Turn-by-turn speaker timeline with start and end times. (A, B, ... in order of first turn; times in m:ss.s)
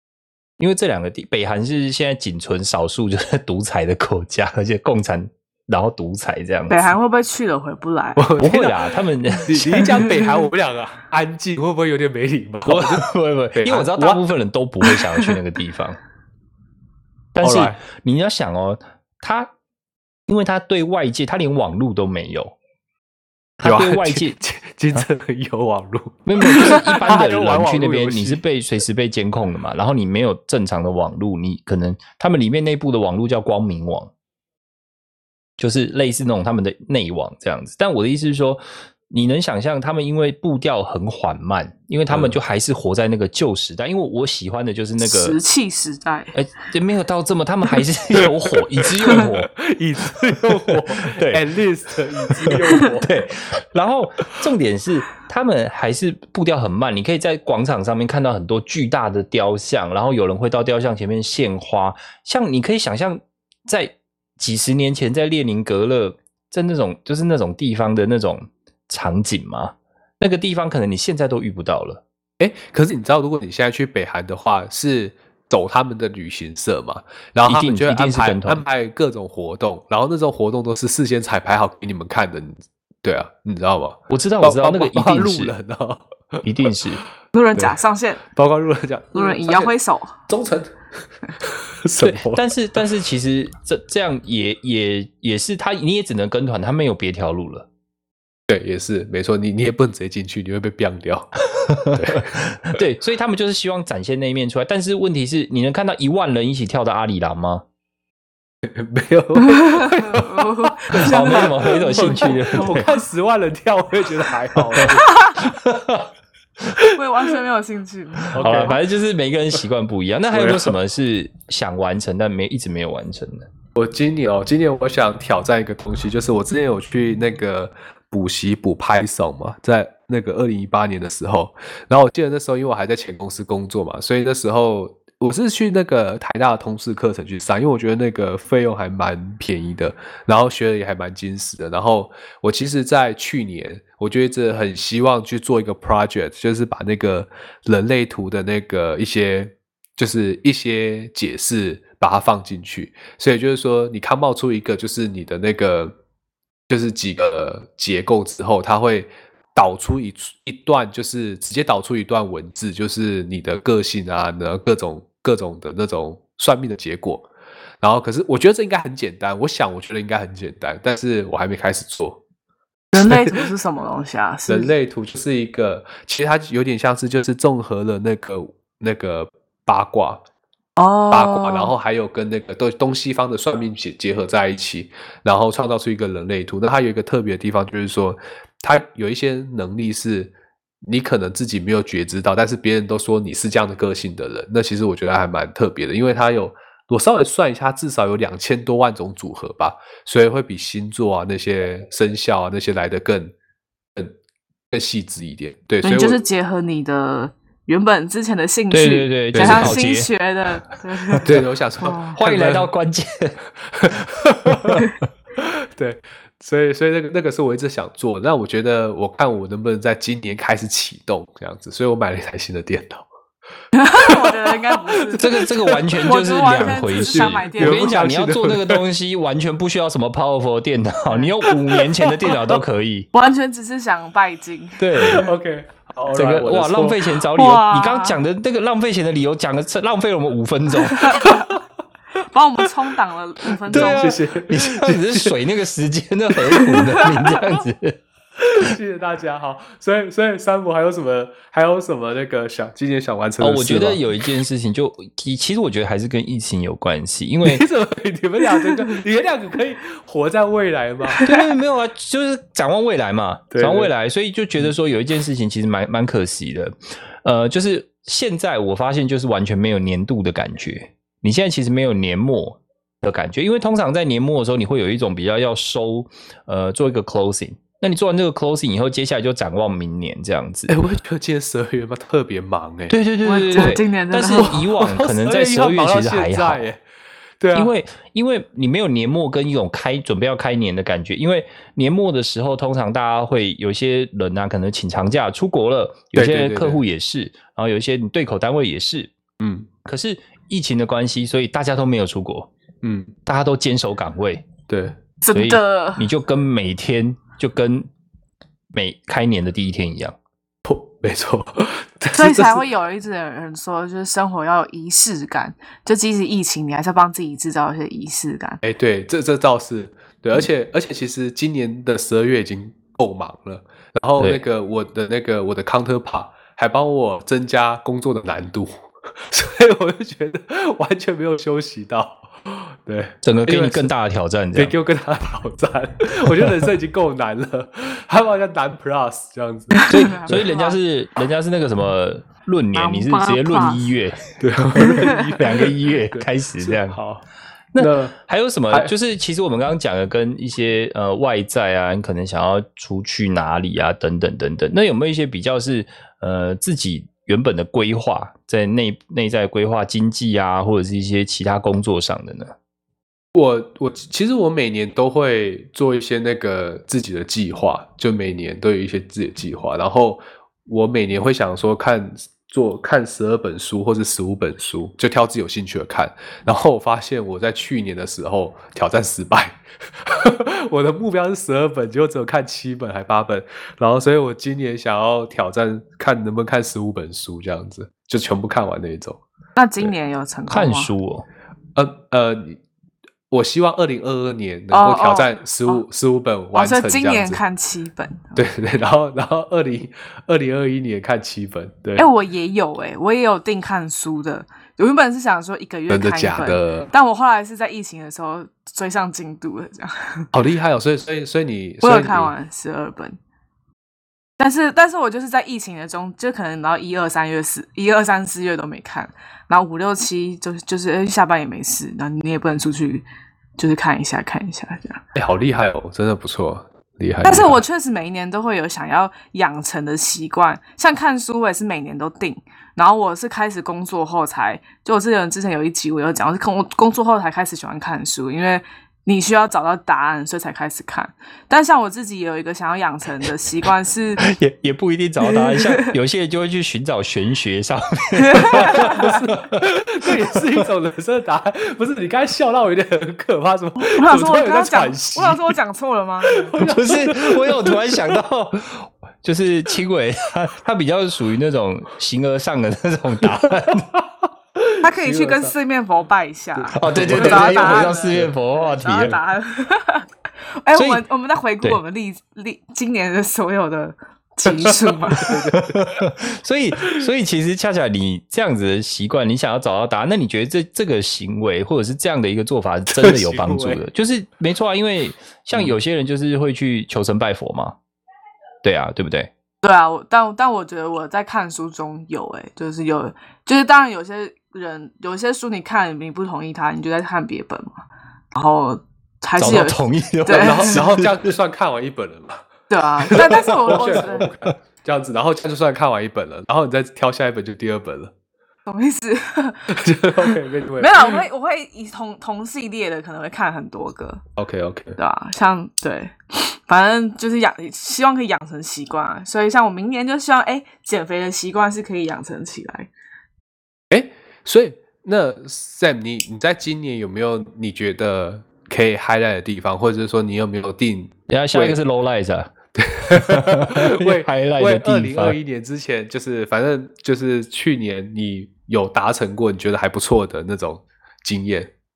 0:00.6-0:06.9 A
0:06.7-0:08.3 B
0:08.2-0:14.2 C
0:08.4-0:10.1 A
0:12.6-0:16.0 A
0:17.3-0:19.5 A
0:17.4-0:17.8 C
0:20.3-0:22.5 A
0:23.6-0:24.4 A
0:23.6-0:28.4 C
0:26.2-0:34.1 A
0:35.6-0:45.4 A
0:42.1-0:42.4 C
0:45.0-0:46.3 B
0:46.3-0:49.5 A
0:49.1-0:53.1 C
0:50.7-0:51.4 A
0:52.3-1:12.0 A
1:12.4-1:26.4 C
1:17.4-1:18.6 A
1:24.1-1:25.5 A
1:26.4-1:27.0 A
1:27.3-1:28.2 B
1:27.6-1:29.7 C
1:29.1-1:30.2 B
1:30.3-1:30.8 C
1:31.4-1:32.4 C
1:32.0-1:37.7 A
1:38.5-1:42.8 C
1:41.5-1:47.6 A
1:48.6-1:55.2 C
1:49.4-1:52.9 B
1:50.9-1:52.9 A
1:54.7-1:56.1 A
1:55.0-1:55.3 B
1:56.9-1:58.8 B
1:58.3-1:58.8 C
1:58.3-2:03.5 A
2:00.3-2:00.7 C
2:03.7-2:36.0 C
2:36.7-2:47.3 C
2:47.8-2:52.2 C
2:52.9-2:54.7 B
2:53.0-2:53.3 C
2:54.5-3:00.2 C
3:00.8-3:01.7 B
3:01.1-3:23.3 C
3:24.7-3:26.2 C
3:25.8-3:32.2 B
3:28.7-3:30.1 A
3:29.3-3:29.8 C
3:31.1-3:31.4 A
3:31.2-3:32.7 C
3:32.2-3:33.4 A
3:33.7-3:34.8 C
3:33.9-3:34.9 A
3:35.4-3:43.1 C
3:43.7-3:48.0 B
3:44.0-3:45.8 C
3:45.2-3:53.1 A
3:46.9-3:48.8 C
3:53.1-3:55.3 B
3:54.8-3:55.3 A
3:55.0-3:57.1 C
3:56.1-4:01.3 A
3:57.3-3:58.2 B
4:00.9-4:01.5 B
4:02.2-4:04.1 B
4:03.7-4:05.4 C
4:03.7-4:08.0 A
4:06.6-4:07.0 B
4:08.4-4:14.0 C
4:13.4-4:17.6 A
4:17.4-4:21.2 C
4:21.2-4:40.7 A
4:23.5-4:23.9 C
4:40.7-4:43.0 C
4:42.9-4:46.6 A
4:43.2-4:44.6 B
4:43.5-4:46.8 C
4:47.4-4:47.7 C
4:47.5-4:59.1 A
4:56.1-4:56.8 C
4:59.4-4:59.7 C
4:59.8-5:02.5 A
5:02.8-5:03.1 C
5:03.2-5:04.5 A
5:04.7-5:05.0 C
5:05.2-5:06.1 B
5:05.3-5:07.9 A
5:08.7-5:10.2 A
5:10.6-5:12.6 C
5:12.1-5:18.6 B
5:18.6-5:33.9 C
5:24.2-5:24.4 A
5:33.2-5:34.7 A
5:34.5-5:40.4 C
5:39.7-5:40.8 B
5:39.9-5:47.0 A
5:42.7-5:43.8 B
5:44.4-5:47.2 C
5:44.8-5:45.2 B
5:47.7-6:02.5 A
5:47.8-5:48.2 C
6:03.3-6:29.2 C
6:29.5-6:30.9 B
6:30.5-6:31.3 A
6:31.8-6:32.6 C
6:33.3-6:37.4 C
6:34.7-6:35.8 B
6:36.5-6:38.4 B
6:38.4-6:42.1 C
6:42.0-6:50.3 B
6:45.9-6:46.9 C
6:50.3-6:52.3 C
6:51.8-6:53.2 B
6:54.4-7:03.0 B
7:03.6-7:05.0 B
7:05.1-7:07.6 C
7:07.2-7:24.2 B
7:24.2-7:30.3 A
7:25.3-7:25.9 B
7:28.1-7:29.1 B
7:28.5-7:35.6 C
7:33.8-7:36.5 B
7:36.2-7:38.2 C
7:36.6-7:43.9 A
7:43.7-7:44.0 C
7:44.6-7:45.5 C
7:44.8-7:50.1 B
7:46.6-7:48.3 C
7:46.7-7:49.2 A
7:50.6-7:55.3 B
7:50.7-7:51.0 A
7:54.5-7:55.9 C
7:55.5-8:07.8 A
8:02.9-8:03.8 C
8:08.6-8:09.3 A
8:09.6-8:20.8 B
8:19.4-8:21.2 A
8:20.3-8:22.4 C
8:22.7-8:24.3 B
8:23.0-8:28.1 C
8:23.1-8:23.8 A
8:28.6-8:34.2 B
8:29.7-8:31.2 C
8:34.4-8:35.0 C
8:35.0-8:42.9 B
8:43.9-8:51.8 C
8:51.3-8:52.5 A
8:52.8-9:01.7 C
8:53.1-8:55.4 A